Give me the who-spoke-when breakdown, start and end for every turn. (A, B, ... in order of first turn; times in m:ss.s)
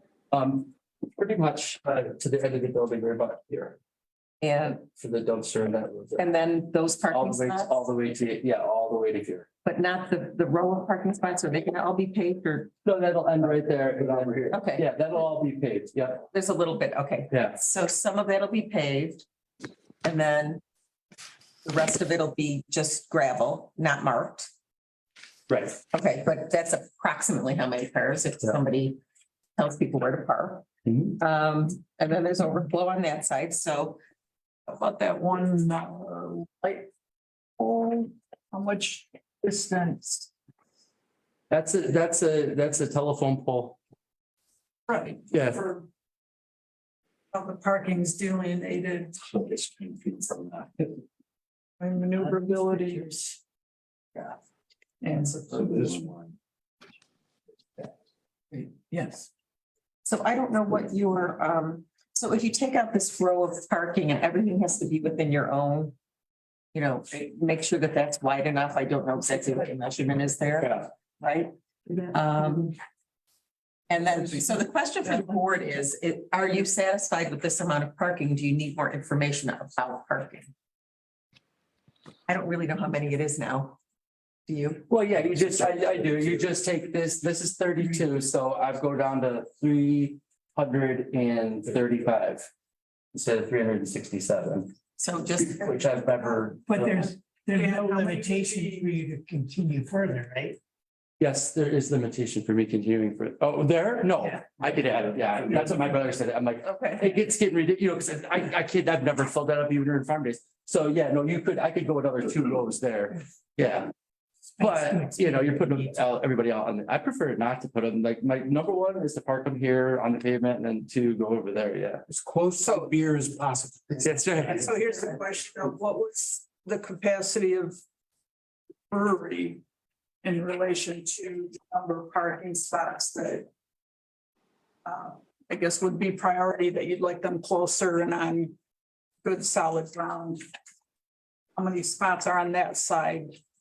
0:00.3-0:03.8 A
0:04.4-0:04.8 B
0:04.7-0:06.3 A
0:06.2-0:07.8 B
0:07.0-0:09.5 A
0:09.6-0:12.7 B
0:12.8-0:16.3 A
0:13.8-0:14.6 C
0:14.5-0:14.9 B
0:16.3-0:19.2 B
0:17.3-0:17.6 A
0:20.0-0:20.6 B
0:21.6-0:24.5 B
0:25.5-0:25.8 A
0:25.9-0:29.0 B
0:29.6-0:30.7 B
0:30.9-0:31.2 A
0:31.2-0:34.0 B
0:34.7-0:36.9 D
0:37.6-0:40.3 D
0:41.5-0:43.8 A
0:44.9-0:45.9 D
0:45.3-0:45.6 A
0:47.3-0:49.2 D
0:49.3-0:50.9 C
0:51.8-0:53.4 D
0:55.0-0:56.0 D
0:55.5-0:56.3 C
1:00.0-1:06.0 B
1:06.7-1:11.5 B
1:12.1-1:12.8 B
1:13.9-1:20.5 B
1:22.3-1:23.8 B
1:24.5-1:24.9 B
1:24.9-1:32.5 A
1:33.1-1:34.7 A
1:35.0-1:35.7 B
1:35.4-1:37.0 A
1:36.7-1:40.6 E
1:37.5-1:38.9 D
1:41.2-1:53.9 A
1:46.6-1:47.2 B
1:54.6-2:02.0 A
1:54.6-1:55.2 E
2:02.1-2:04.5 C
2:02.6-2:02.9 D
2:04.0-2:04.6 A
2:04.4-2:07.8 D
2:08.9-2:09.6 D
2:10.2-2:13.5 D
2:14.8-2:18.6 D
2:19.2-2:20.4 D
2:21.6-2:23.4 D